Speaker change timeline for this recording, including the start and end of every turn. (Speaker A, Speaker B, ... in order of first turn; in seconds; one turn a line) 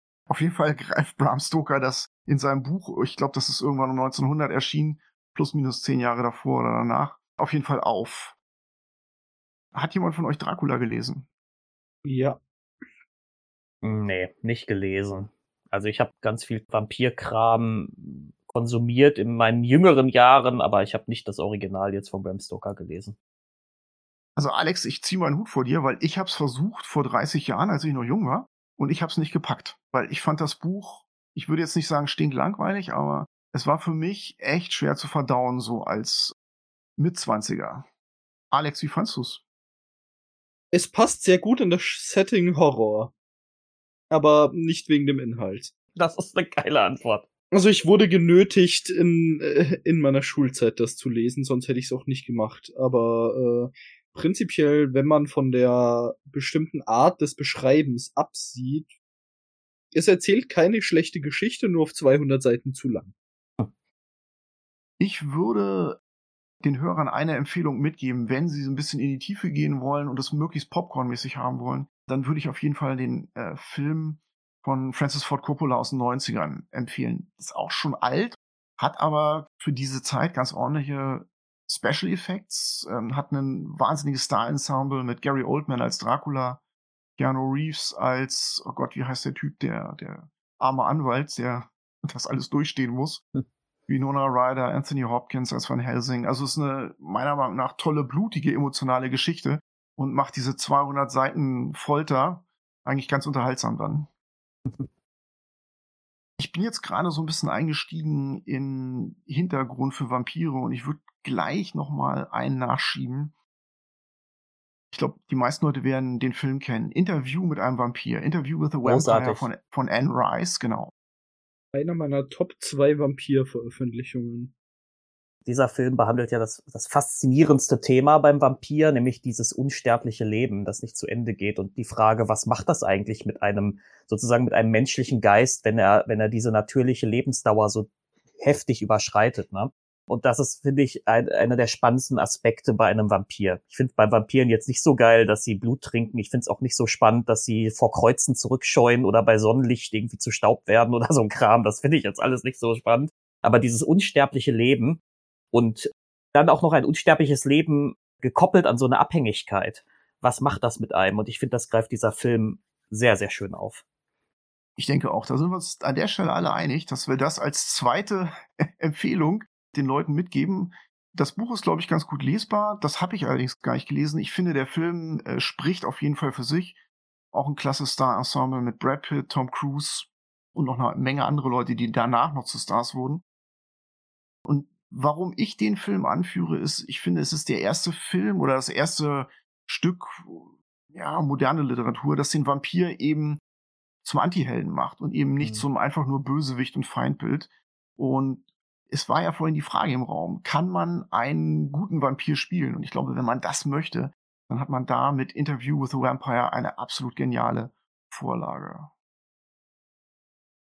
Speaker A: 0.3-8.3
Speaker A: 9.7-11.2
Speaker B: 12.0-12.4
Speaker C: 13.8-23.1
Speaker A: 24.4-36.3
Speaker A: 37.0-37.9
Speaker A: 38.5-39.4
Speaker B: 40.7-43.1
Speaker B: 44.1-45.7
Speaker C: 46.0-47.3
Speaker B: 47.5-58.9
Speaker B: 59.9-63.1
Speaker A: 65.0-66.0
Speaker A: 66.6-86.6
Speaker A: 87.2-93.2
Speaker A: 93.9-104.1
Speaker A: 106.4-113.3
Speaker A: 114.9-120.9
Speaker C: 118.8-119.5
Speaker B: 121.7-124.5
Speaker C: 125.5-137.9
Speaker C: 138.4-155.0
Speaker C: 155.5-163.8
Speaker A: 164.8-176.8
Speaker A: 177.3-183.2
Speaker A: 184.4-193.4
Speaker A: 194.0-208.9
Speaker C: 195.4-195.7